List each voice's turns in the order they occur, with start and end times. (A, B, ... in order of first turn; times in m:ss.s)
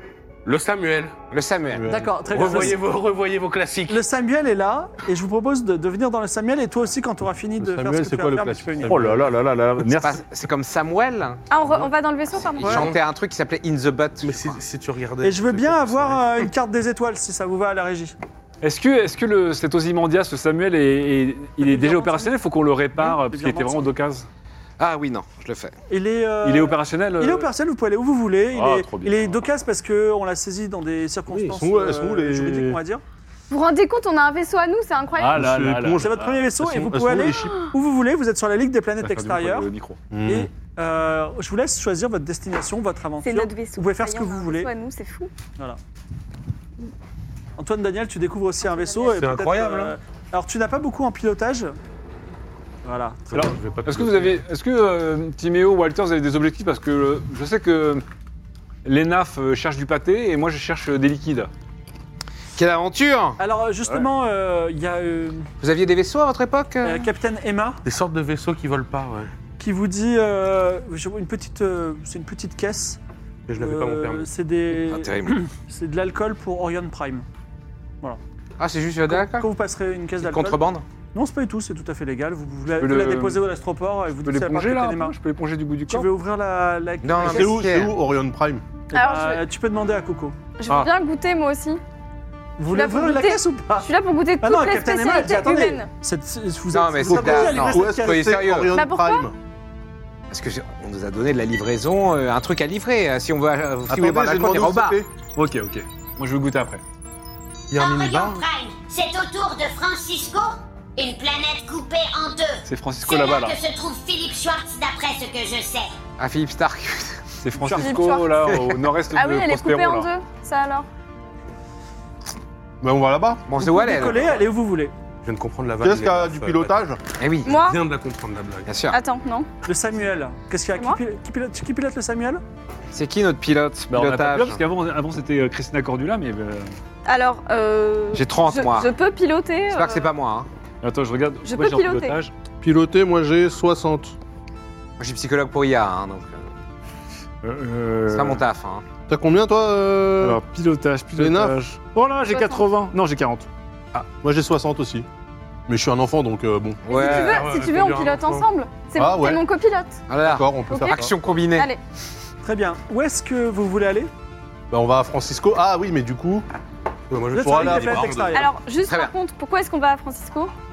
0:00.4-0:01.1 A
0:01.3-0:01.8 B
0:01.7-0:02.6 C
0:01.8-0:02.8 D
0:02.3-0:04.0 A
0:03.9-0:09.0 D
0:07.6-0:09.3 C
0:08.8-0:10.2 E
0:10.0-0:11.4 B
0:11.5-0:12.9 F
0:12.6-0:14.6 B
0:12.6-0:13.0 A
0:14.2-0:16.5 A
0:15.2-0:18.2 D
0:18.6-0:24.3 E
0:21.6-0:22.3 D
0:23.0-0:23.9 D
0:24.8-0:25.7 B
0:25.9-0:33.0 D
0:26.4-0:27.5 E
0:28.5-0:29.4 E
0:31.3-0:32.8 C
0:33.5-0:35.4 F
0:35.2-0:36.9 E
0:35.3-0:37.6 C
0:36.0-0:39.7 D
0:39.0-0:40.0 E
0:40.1-0:40.5 C
0:40.2-0:44.7 D
0:43.2-0:45.3 F
0:47.6-0:51.7 D
0:48.7-0:49.1 F
0:49.1-0:50.0 A
0:52.8-0:53.5 D
0:53.3-0:54.4 A
0:53.3-0:58.0 E
0:58.8-1:01.5 E
1:02.6-1:03.4 B
1:03.4-1:05.5 D
1:05.6-1:07.0 B
1:06.8-1:07.8 D
1:07.8-1:09.3 A
1:09.6-1:13.0 D
1:13.5-1:14.3 A
1:13.6-1:17.2 D
1:14.9-1:15.4 B
1:18.6-1:19.5 B
1:19.1-1:20.6 D
1:20.2-1:20.8 B
1:21.1-1:25.1 D
1:22.8-1:23.4 E
1:24.2-1:26.1 E
1:25.9-1:27.6 D
1:27.0-1:27.9 B
1:27.2-1:28.6 C
1:28.9-1:30.4 D
1:28.9-1:29.4 F
1:30.6-1:31.8 F
1:32.6-1:38.3 D
1:32.7-1:35.9 F
1:36.7-1:38.7 B
1:37.1-1:39.3 C
1:38.7-1:39.3 F
1:40.3-1:45.0 B
1:43.9-1:45.1 C
1:45.3-1:46.8 E
1:47.7-1:48.4 A
1:47.7-1:56.0 G
1:52.6-1:53.6 E
1:56.2-1:57.2 B
1:57.4-2:00.1 E
1:57.7-1:58.4 F
1:59.1-2:00.9 F
2:02.8-2:03.4 C
2:03.5-2:04.4 B
2:03.6-2:04.9 D
2:05.2-2:06.8 A
2:05.8-2:07.0 C
2:07.2-2:07.5 B
2:07.4-2:07.8 F
2:07.4-2:08.7 A
2:08.7-2:09.0 B
2:08.9-2:09.5 F
2:09.6-2:12.4 D
2:10.7-2:11.0 F
2:12.9-2:14.6 B
2:13.9-2:16.7 E
2:17.0-2:20.1 F
2:18.1-2:18.9 B
2:19.7-2:20.5 B
2:20.8-2:22.3 E
2:21.4-2:22.2 F
2:22.6-2:24.2 C
2:25.0-2:26.4 B
2:27.4-2:28.4 E
2:28.1-2:28.8 B
2:29.1-2:30.4 C
2:30.2-2:33.5 E
2:31.1-2:31.6 C
2:32.3-2:32.6 F
2:34.0-2:35.0 C
2:35.7-2:36.8 C
2:36.8-2:37.4 B
2:36.9-2:40.0 F
2:36.9-2:38.5 A
2:38.9-2:39.4 C
2:40.1-2:41.7 B
2:40.2-2:41.1 C
2:40.6-2:41.8 F
2:42.4-2:44.1 D
2:44.7-2:46.4 C
2:47.1-2:48.4 A
2:47.3-2:48.5 D
2:47.4-2:48.2 C
2:48.3-2:50.5 F
2:48.9-2:49.1 B